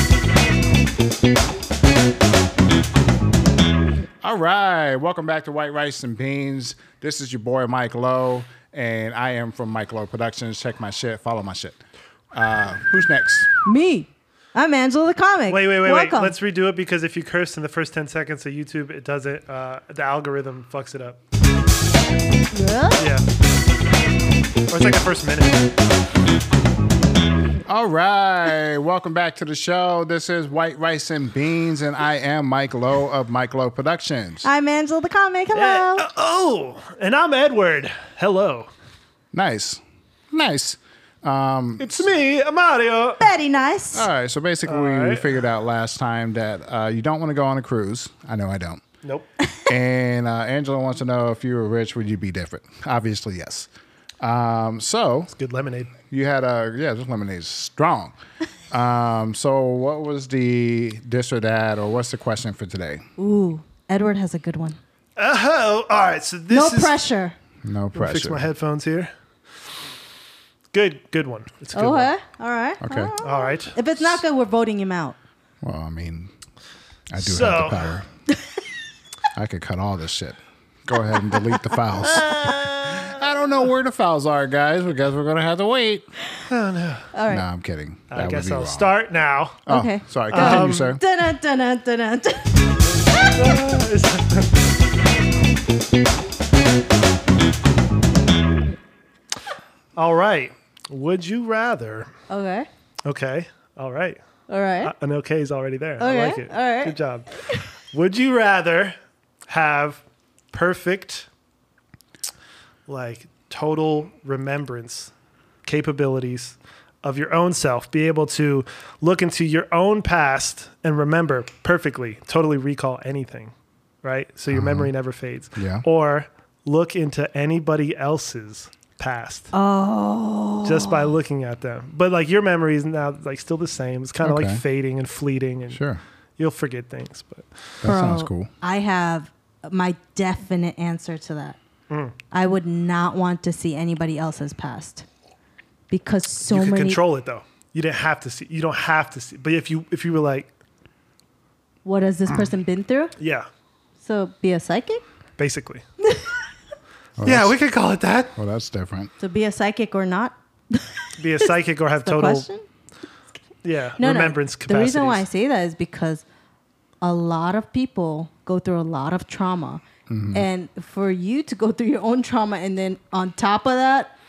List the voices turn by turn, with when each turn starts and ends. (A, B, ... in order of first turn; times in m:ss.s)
0:04.2-0:11.8 A
0:12.3-0:13.5 A
0:13.6-0:16.4 B
0:15.5-0:21.2 C
0:22.5-0:23.1 B
0:23.0-0:23.2 C
0:24.7-0:25.6 C
0:27.6-0:34.5 A
0:34.4-0:36.0 B
0:35.5-0:38.7 C
0:39.3-0:42.1 A
0:41.8-0:43.3 C
0:43.2-0:44.1 B
0:43.9-0:48.8 A
0:44.6-0:45.3 C
0:49.0-0:49.3 C
0:49.6-0:53.7 A
0:54.2-0:55.3 A
0:55.3-0:55.9 C
0:56.1-0:58.2 A
0:58.7-1:03.0 A
1:03.2-1:04.8 B
1:05.2-1:07.0 C
1:06.5-1:07.3 B
1:07.6-1:08.5 A
1:07.9-1:09.1 C
1:10.7-1:12.1 C
1:11.7-1:15.2 B
1:12.8-1:13.1 A
1:13.2-1:13.8 C
1:15.6-1:16.3 A
1:17.1-1:18.1 A
1:17.2-1:17.9 C
1:19.3-1:26.1 A
1:21.1-1:23.1 B
1:22.2-1:22.6 C
1:26.5-1:27.1 C
1:27.1-1:27.4 B
1:27.3-1:28.9 A
1:28.1-1:29.6 C
1:29.6-1:31.0 A
1:29.6-1:33.2 B
1:30.3-1:31.0 C
1:32.8-1:34.5 C
1:40.0-1:42.1 C
1:42.3-1:42.7 B
1:43.0-1:44.2 C
1:44.5-1:44.9 B
1:44.8-1:47.3 C
1:46.0-1:47.0 B
1:47.9-1:49.0 C
1:49.5-1:51.3 C
1:52.9-1:55.1 C
1:55.6-2:09.5 C
2:04.5-2:04.9 A
2:05.5-2:05.8 A
2:09.5-2:11.1 B
2:10.6-2:15.8 C
2:14.2-2:14.6 A
2:15.7-2:16.0 A
2:16.4-2:17.5 C
2:17.8-2:18.5 A
2:17.8-2:21.6 B
2:22.3-2:25.0 B
2:25.9-2:27.0 B
2:26.5-2:30.5 C
2:31.8-2:33.1 B
2:33.2-2:33.5 C
2:34.0-2:35.0 B
2:35.4-2:35.8 C
2:36.0-2:36.4 B
2:37.2-2:37.6 A
2:37.2-2:38.3 C
2:38.3-2:39.1 A
2:39.2-2:42.6 B
2:41.2-2:42.5 C
2:43.6-2:45.2 C
2:44.0-2:46.2 B
2:47.0-2:49.8 B
2:50.1-2:50.5 A
2:50.3-2:54.1 B